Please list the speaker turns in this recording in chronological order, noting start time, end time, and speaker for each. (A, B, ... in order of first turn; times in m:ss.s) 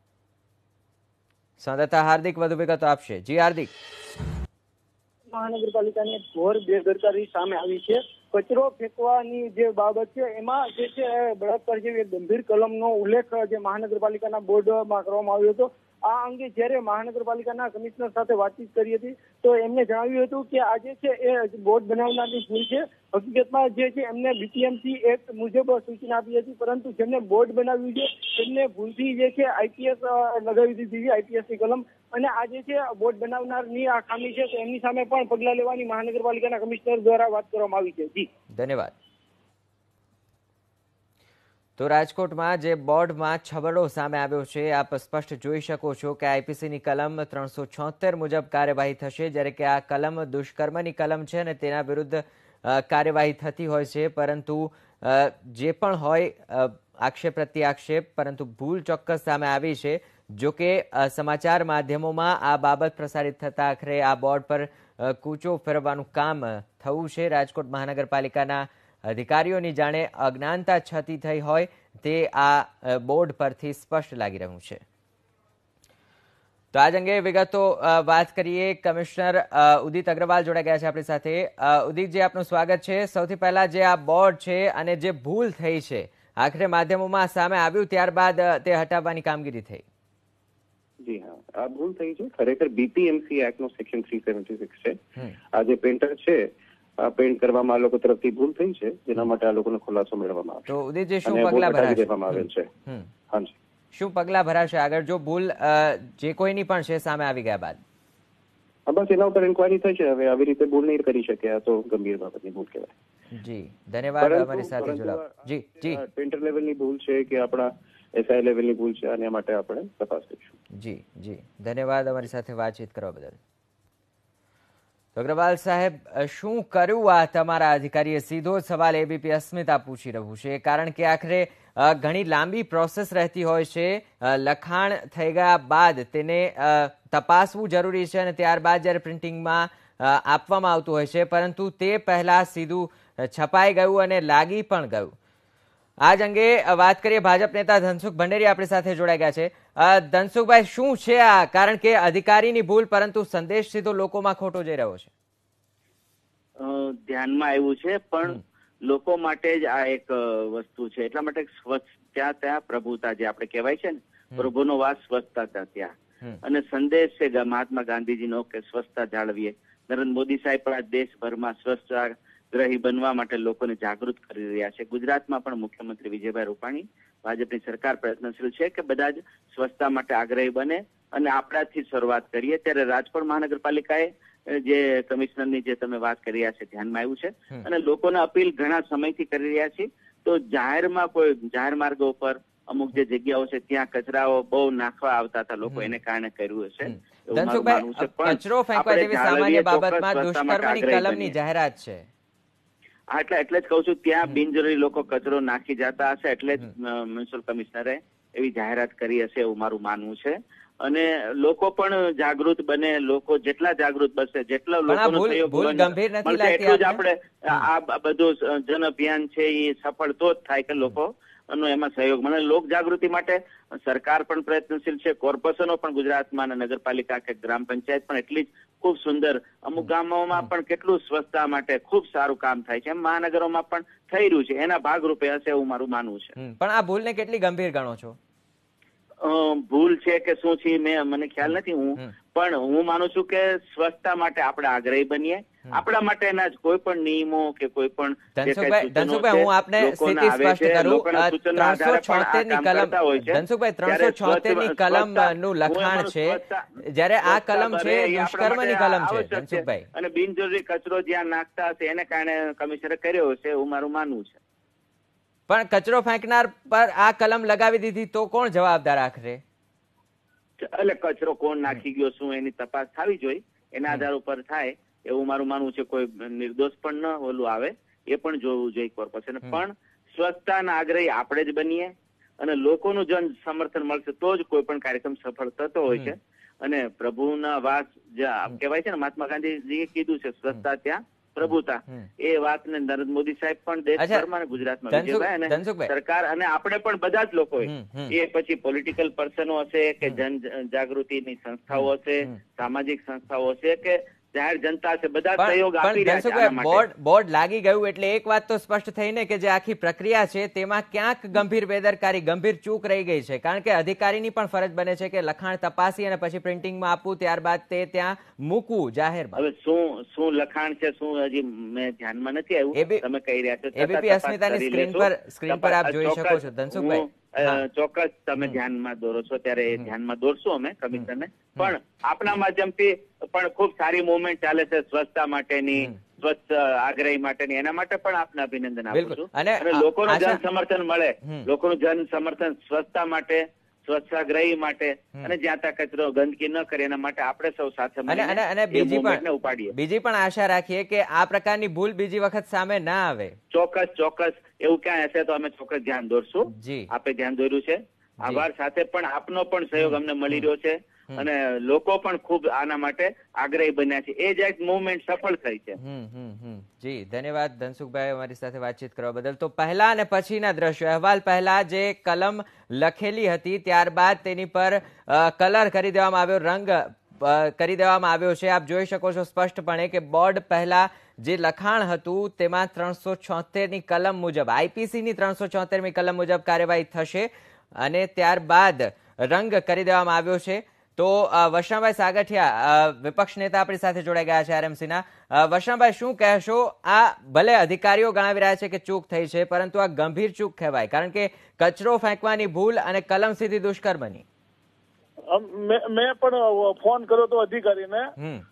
0:01.6-0:03.7 A
0:05.3-0:38.3 B
0:38.6-0:38.9 A
0:41.8-1:14.8 A
1:16.7-1:29.8 A
1:31.0-1:35.0 C
1:35.5-1:36.5 C
1:37.0-1:42.7 C
1:40.7-1:43.1 A
1:43.9-1:47.8 A
1:48.9-1:52.9 C
1:53.3-1:56.0 A
1:54.2-2:00.5 C
2:00.7-2:03.4 A
2:05.1-2:25.1 A
2:26.0-2:35.1 A
2:36.6-3:21.4 D
3:16.8-3:22.0 A
3:23.1-3:56.3 D
3:34.9-3:37.0 A
3:56.4-3:58.2 A
3:59.2-4:16.6 D
4:08.4-4:19.9 A
4:17.2-4:24.4 D
4:25.5-4:29.4 A
4:30.6-5:06.9 D
4:54.0-4:54.2 A
4:54.9-4:55.9 A
4:57.6-4:58.2 A
5:01.7-5:02.3 A
5:05.4-5:19.4 A
5:19.4-5:49.7 D
5:22.8-5:23.0 A
5:23.8-5:27.6 A
5:38.9-5:40.4 A
5:48.1-5:53.4 A
5:53.5-6:05.8 D
5:56.5-5:56.9 A
5:59.8-6:00.4 A
6:05.8-6:44.2 A
6:45.3-6:48.1 E
6:48.2-6:48.4 A